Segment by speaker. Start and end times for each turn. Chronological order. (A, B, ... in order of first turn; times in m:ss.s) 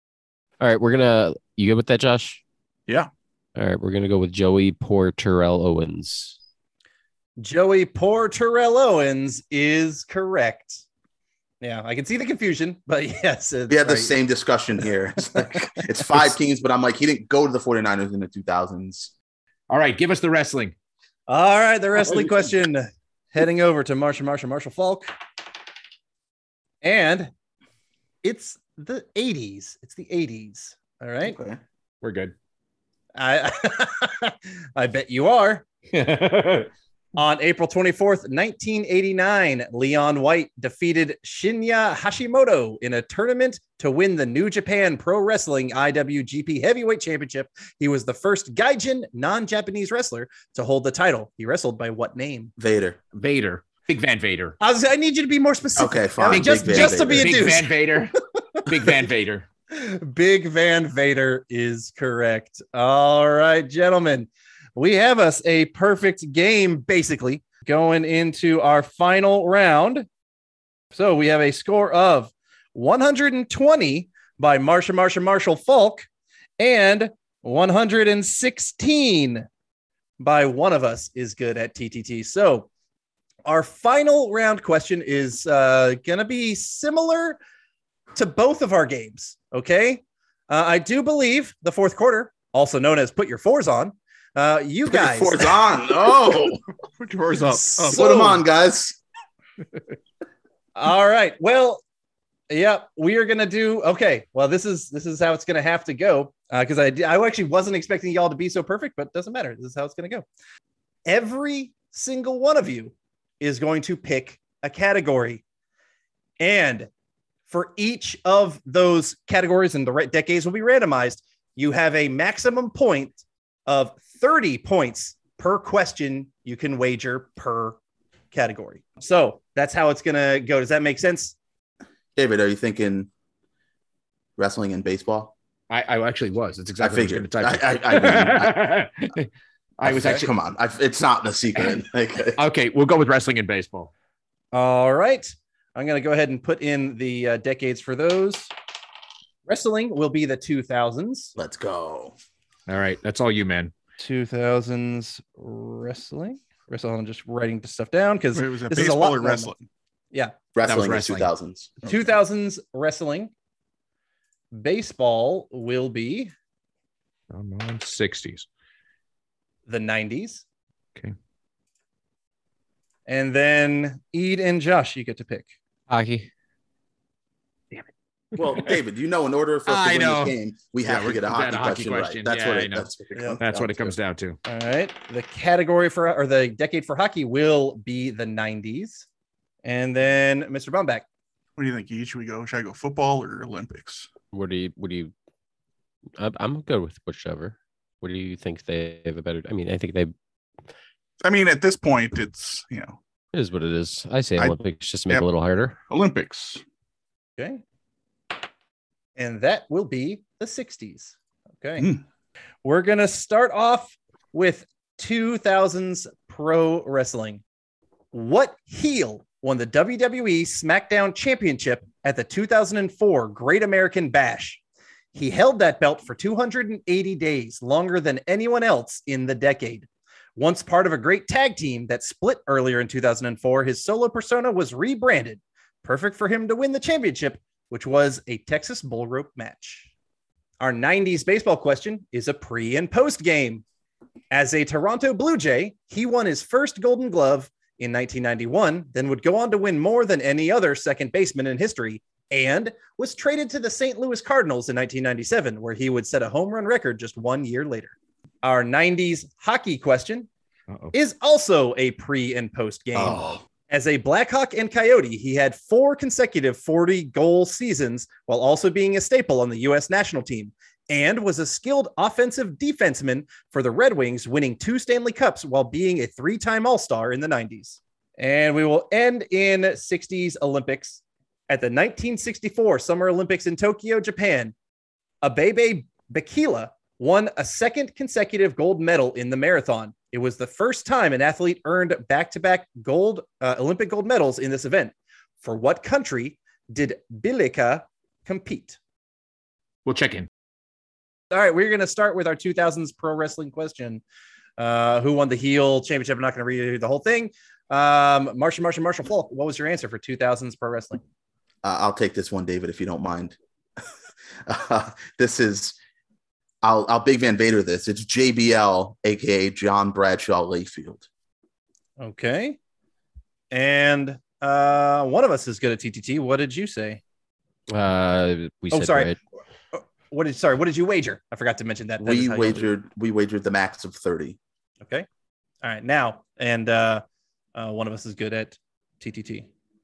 0:00.6-0:02.4 A
0:03.6-0:06.4 A
0:07.4-0:10.8 B
0:11.6-0:14.2 B
0:13.7-0:19.1 C
0:19.7-0:20.8 D
0:21.3-0:25.1 B
0:26.8-0:27.3 B
0:28.2-0:31.4 B
0:31.2-0:31.6 C
0:32.0-0:32.4 D
0:33.2-0:35.6 B
0:35.9-0:36.7 D
0:37.2-0:52.5 B
0:52.6-0:53.0 C
0:53.1-0:54.6 D
0:54.6-0:57.7 B
0:55.8-0:57.5 C
0:56.2-0:59.5 D
0:59.7-1:10.1 B
1:10.9-1:16.1 B
1:16.6-1:19.5 B
1:20.2-1:22.7 B
1:23.5-1:27.4 B
1:28.2-1:35.6 B
1:34.9-1:36.6 C
1:37.0-1:38.4 E
1:37.5-1:38.0 B
1:37.9-1:39.0 C
1:40.8-1:41.8 B
1:42.5-1:50.2 B
1:51.1-1:55.4 B
1:56.4-1:56.9 B
1:57.5-2:07.8 B
2:08.3-2:11.4 B
2:12.2-2:13.1 C
2:14.4-2:15.3 C
2:15.7-2:20.3 D
2:16.8-2:18.8 C
2:19.8-2:22.4 C
2:22.4-2:23.9 D
2:24.5-2:28.5 B
2:29.5-2:31.3 B
2:31.4-2:32.2 C
2:32.7-2:33.7 D
2:34.0-2:39.5 B
2:38.3-2:39.6 E
2:40.6-2:42.0 C
2:40.6-2:41.3 D
2:41.8-2:43.3 B
2:44.5-2:46.3 B
2:47.3-2:48.5 D
2:49.7-2:50.4 B
2:53.1-2:55.5 B
2:55.9-2:56.3 A
2:58.4-2:58.8 D
2:58.4-3:04.0 C
2:59.7-3:04.4 D
3:03.2-3:03.4 B
3:04.4-3:09.1 B
3:09.6-3:11.0 B
3:11.6-3:14.1 E
3:14.3-3:15.1 A
3:16.2-3:20.1 A
3:21.2-3:23.0 E
3:23.3-3:25.8 A
3:24.4-3:25.3 E
3:25.9-3:26.6 E
3:29.2-3:32.0 B
3:32.6-3:37.4 B
3:38.1-3:44.6 B
3:45.1-3:59.9 B
4:00.6-4:03.6 B
4:04.3-4:20.3 B
4:20.7-4:20.9 D
4:20.9-4:44.5 B
4:23.0-4:23.4 C
4:45.2-4:58.8 B
4:59.8-5:00.3 D
5:01.3-5:04.0 B
5:04.6-5:11.0 B
5:11.6-5:13.4 C
5:14.5-5:15.8 C
5:16.6-5:21.0 C
5:22.0-5:22.6 B
5:23.5-5:27.0 B
5:27.7-5:29.2 A
5:28.7-5:29.2 B
5:29.7-5:32.7 B
5:32.0-5:34.4 C
5:35.6-5:37.0 B
5:37.6-5:39.5 B